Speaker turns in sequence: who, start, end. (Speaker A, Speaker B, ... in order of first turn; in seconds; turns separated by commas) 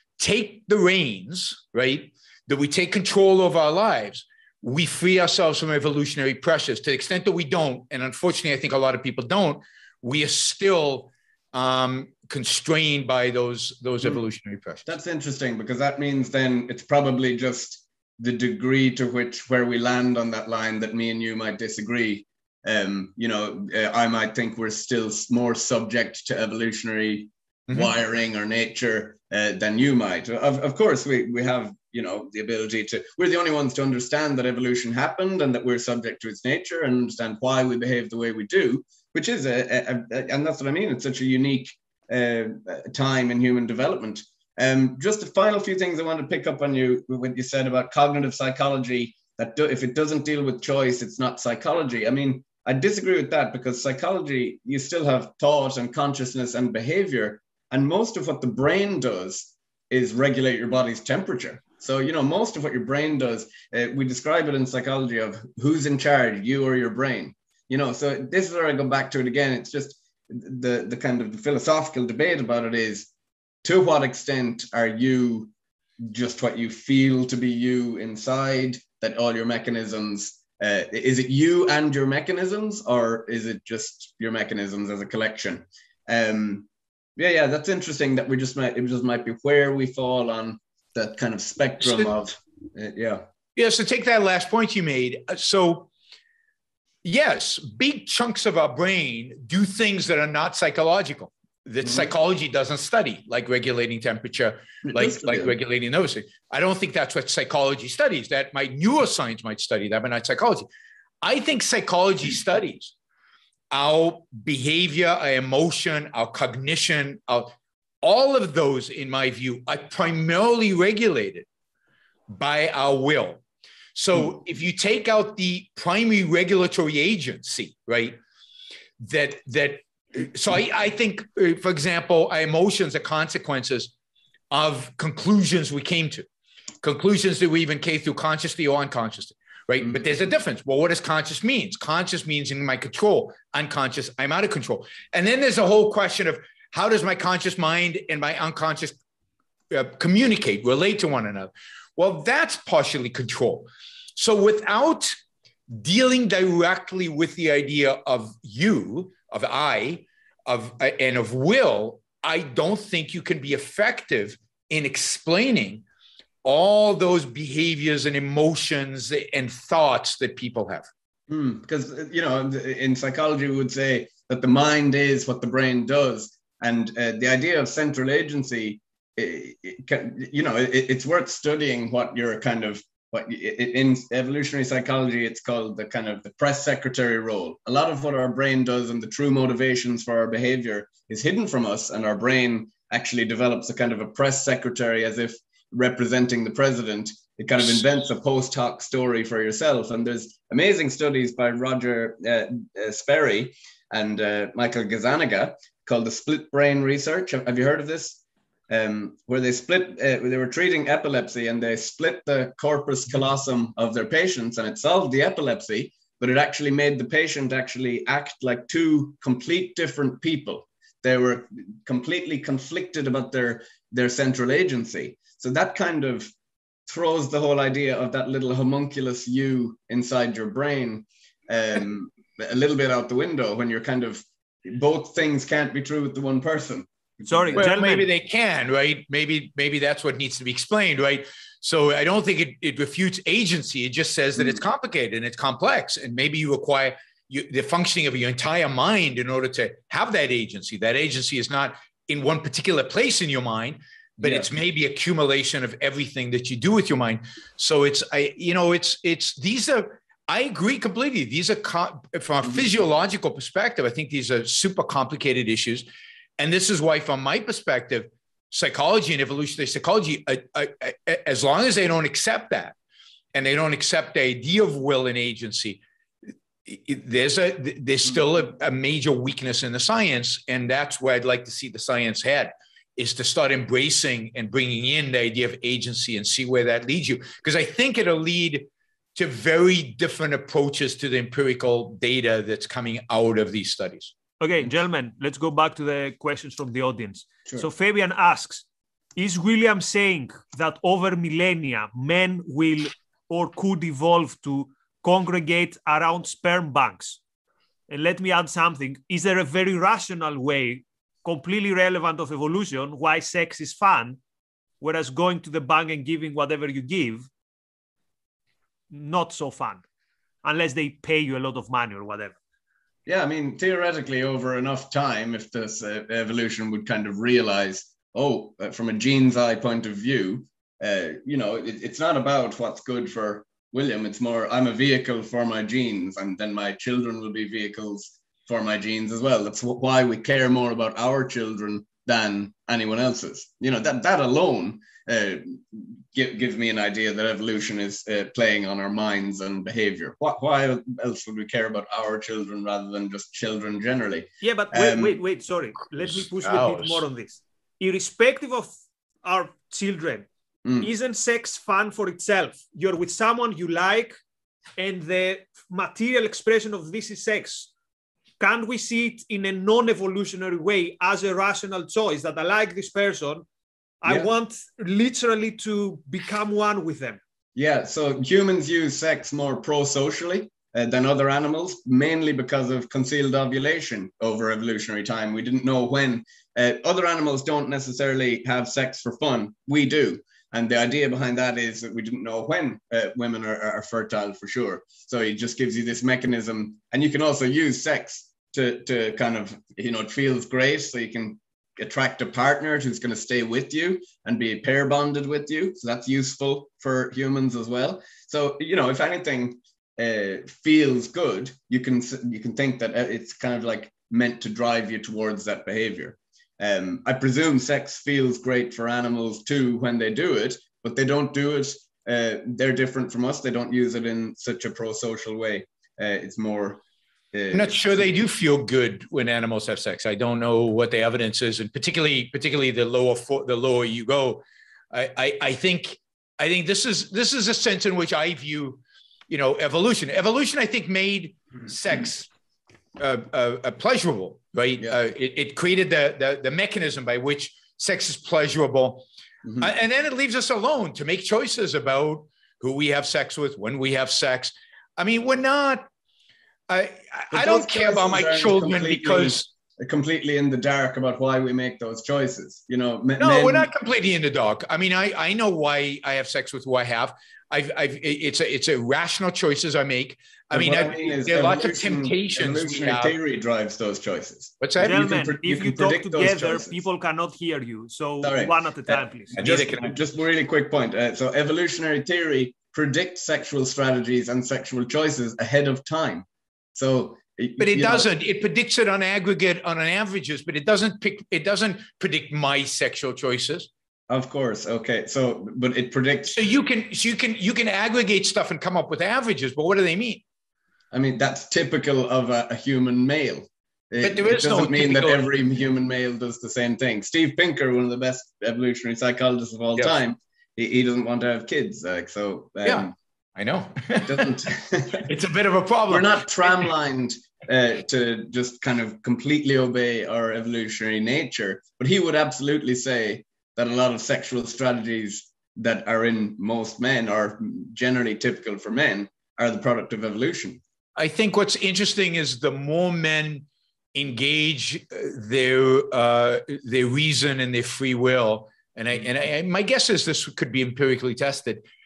Speaker A: 0.2-14.9, Speaker B: 14.8-73.1, Speaker B: 73.6-75.5, Speaker B: 76.0-93.2, Speaker A: 91.8-92.1, Speaker A: 93.5-95.9, Speaker A: 97.0-110.7, Speaker B: 104.8-105.5, Speaker A: 111.2-112.9, Speaker A: 113.7-117.5, Speaker A: 118.0-121.5, Speaker A: 122.3-123.4, Speaker A: 123.9-128.2, Speaker A: 129.0-133.9, Speaker A: 134.5-136.2, Speaker A: 136.8-149.0, Speaker A: 149.7-155.1, Speaker A: 155.7-165.8, Speaker A: 166.4-170.9, Speaker B: 171.3-226.3, Speaker B: 226.9-237.7, Speaker C: 237.3-238.1, Speaker A: 237.5-265.8, Speaker B: 254.2-254.5, Speaker A: 266.4-272.7, Speaker A: 273.3-275.8, Speaker A: 276.6-294.1, Speaker C: 294.4-307.2, Speaker C: 307.9-314.2, Speaker C: 314.8-317.3, Speaker C: 318.9-319.8, Speaker C: 320.4-322.4, Speaker B: 323.1-355.2, Speaker C: 354.4-358.7, Speaker A: 356.4-357.0, Speaker C: 359.2-360.3, Speaker C: 360.8-364.1, Speaker C: 364.8-367.7, Speaker C: 368.4-373.4, Speaker C: 374.0-377.2, Speaker B: 377.6-428.1, Speaker A: 427.5-442.3, Speaker A: 443.0-449.0, Speaker B: 449.4-449.7, Speaker A: 449.6-455.9, Speaker A: 456.7-459.4, Speaker B: 457.3-463.7, Speaker A: 463.2-473.1, Speaker B: 470.5-476.8, Speaker A: 474.6-474.9, Speaker C: 474.8-479.4, Speaker B: 478.2-488.1, Speaker A: 479.4-479.9, Speaker A: 487.6-493.7, Speaker B: 494.1-496.4, Speaker A: 496.3-500.2, Speaker B: 500.9-512.9, Speaker A: 504.0-505.3, Speaker A: 512.6-514.3, Speaker B: 514.0-515.0, Speaker A: 515.0-516.7, Speaker B: 515.9-530.6, Speaker A: 531.0-541.6